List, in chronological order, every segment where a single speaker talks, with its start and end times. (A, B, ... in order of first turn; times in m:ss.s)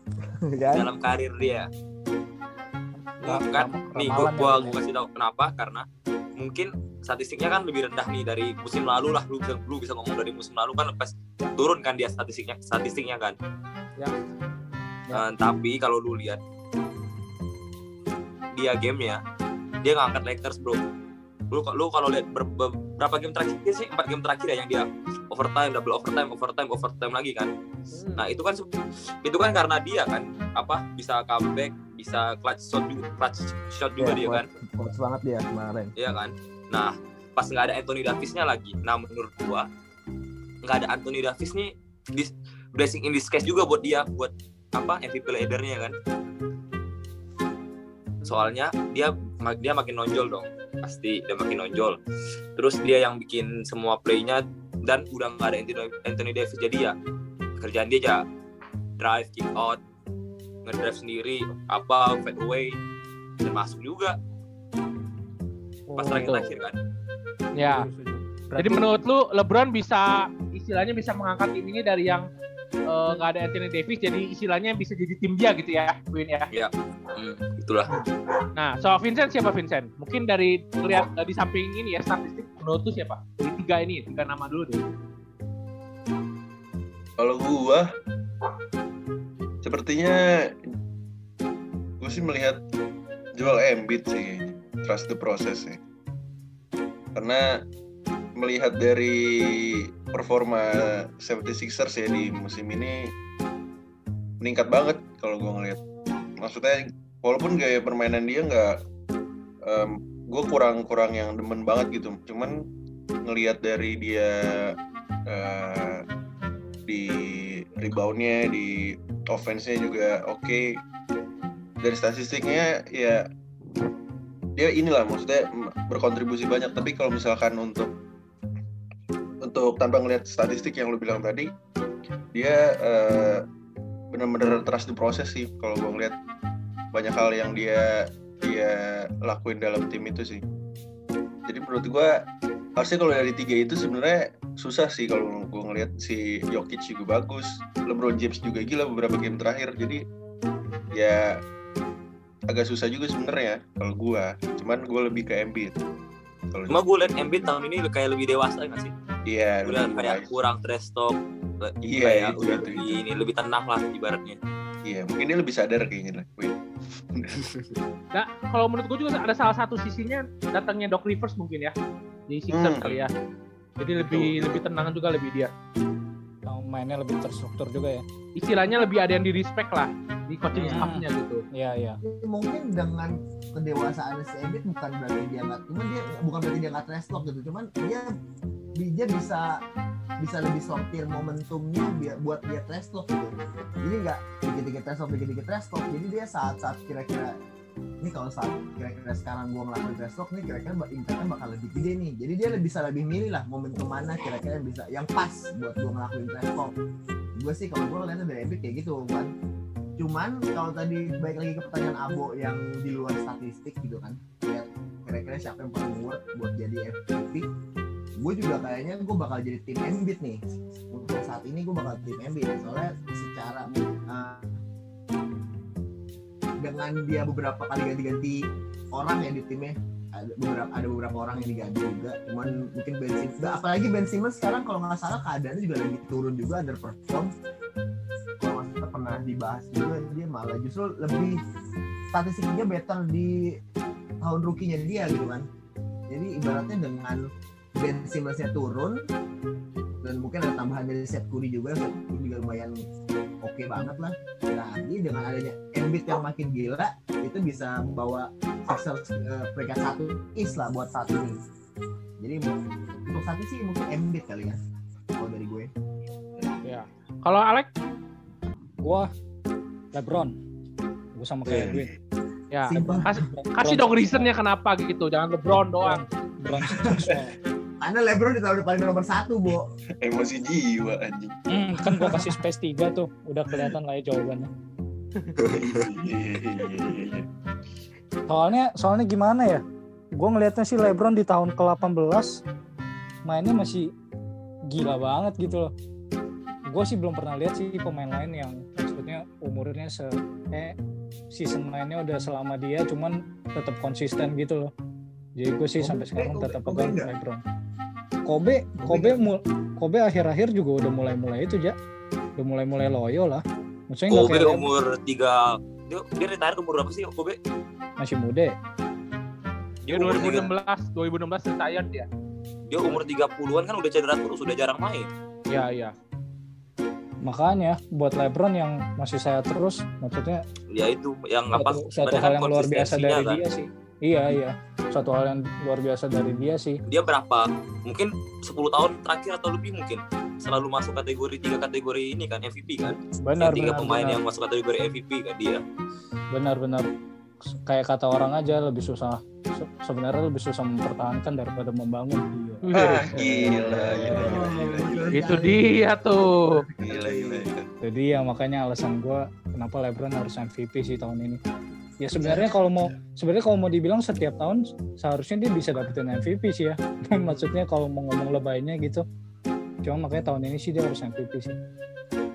0:00.5-0:00.9 A
0:00.7-0:01.7 B
0:03.2-0:04.8 C
0:03.2-0:05.8 B
0:06.4-0:13.4 B
0:15.1-0:16.4 B
0:18.5-0:19.2 B
0:19.8-0:20.8 B
0:21.5-0:27.5 B
0:27.9-0:28.3 D
0:28.2-0:28.6 B
0:29.2-0:34.5 B
0:34.0-0:35.9 A
0:36.0-0:39.7 B
0:40.6-0:45.9 B
0:48.2-0:52.0 B
0:52.6-0:56.9 B
0:57.6-0:58.2 B
0:59.0-0:59.8 B
1:00.6-1:02.8 B
1:03.4-1:04.2 B
1:05.9-1:06.5 D
1:05.9-1:06.8 B
1:07.6-1:07.8 D
1:07.6-1:08.9 C
1:08.5-1:12.2 D
1:12.9-1:16.5 D
1:16.5-1:17.9 B
1:18.5-1:24.9 D
1:27.2-1:27.9 E
1:29.6-1:30.5 E
1:32.0-1:32.6 E
1:33.4-1:35.8 E
1:37.1-1:37.6 E
1:38.4-1:43.1 E
1:44.4-1:45.8 E
1:46.4-1:48.8 E
1:49.6-1:52.6 E
1:53.2-1:54.8 E
1:55.3-1:56.0 E
1:56.9-2:00.8 E
2:01.8-2:03.3 E
2:04.6-2:07.9 E
2:09.4-2:11.5 E
2:12.3-2:13.4 E
2:14.1-2:16.1 E
2:16.9-2:20.4 E
2:21.4-2:22.2 E
2:22.8-2:30.0 E
2:30.9-2:31.4 E
2:32.5-2:35.7 E
2:36.5-2:37.5 E
2:36.7-2:38.9 B
2:39.3-2:40.3 E
2:39.6-2:44.4 B
2:41.8-2:43.0 E
2:44.8-2:46.6 E
2:47.1-2:47.7 E
2:48.1-2:51.7 D
2:52.3-2:53.1 D
2:52.5-2:53.0 E
2:53.8-2:55.5 D
2:54.0-2:54.6 E
2:56.4-2:58.0 C
2:58.4-3:01.4 D
3:00.5-3:00.8 E
3:00.8-3:02.0 C
3:02.0-3:08.1 A
3:08.8-3:09.6 A
3:10.2-3:17.4 A
3:18.0-3:26.7 A
3:27.4-3:29.3 A
3:30.0-3:37.4 A
3:38.2-3:40.4 A
3:40.9-3:44.6 A
3:46.6-3:48.4 A
3:48.9-3:57.3 A
3:58.4-4:01.4 A
4:02.1-4:03.6 A
4:04.2-4:05.5 A
4:06.1-4:07.2 A
4:07.8-4:09.0 A
4:10.0-4:12.8 A
4:13.4-4:21.4 A
4:22.2-4:24.6 A
4:25.2-4:25.7 A
4:26.4-4:26.8 E
4:26.6-4:27.7 D
4:28.8-4:29.1 C
4:29.9-4:30.4 C
4:31.2-4:31.9 C
4:31.4-4:32.0 E
4:32.5-4:36.0 D
4:32.7-4:33.1 A
4:32.8-4:34.3 C
4:35.8-4:37.3 C
4:36.9-4:37.2 E
4:37.8-4:39.7 A
4:40.0-4:41.4 E
4:41.5-4:44.5 C
4:45.4-4:45.8 A
4:45.4-4:47.2 E
4:48.3-4:49.6 C
4:50.2-4:52.4 C
4:53.2-4:53.9 C
4:54.7-4:55.7 C
4:56.7-5:00.7 C
5:01.3-5:04.7 C
5:05.4-5:07.4 C
5:05.8-5:07.1 A
5:08.2-5:11.7 C
5:08.8-5:09.2 A
5:12.4-5:14.7 C
5:14.1-5:17.4 B
5:18.0-5:18.6 C
5:19.9-5:20.5 B
5:19.9-5:22.1 D
5:22.7-5:25.1 B
5:25.5-5:25.9 D
5:27.2-5:30.4 C
5:30.7-5:33.4 B
5:31.5-5:36.8 C
5:36.8-5:45.6 B
5:43.0-5:44.2 C
5:46.3-5:46.9 C
5:47.6-5:54.4 C
5:52.6-5:53.5 D
5:52.7-5:55.3 E
5:53.9-5:57.5 A
5:55.1-5:56.6 D
5:56.8-5:57.6 E
5:57.8-6:01.4 C
6:02.0-6:09.0 C
6:02.2-6:02.5 A
6:09.8-6:11.6 C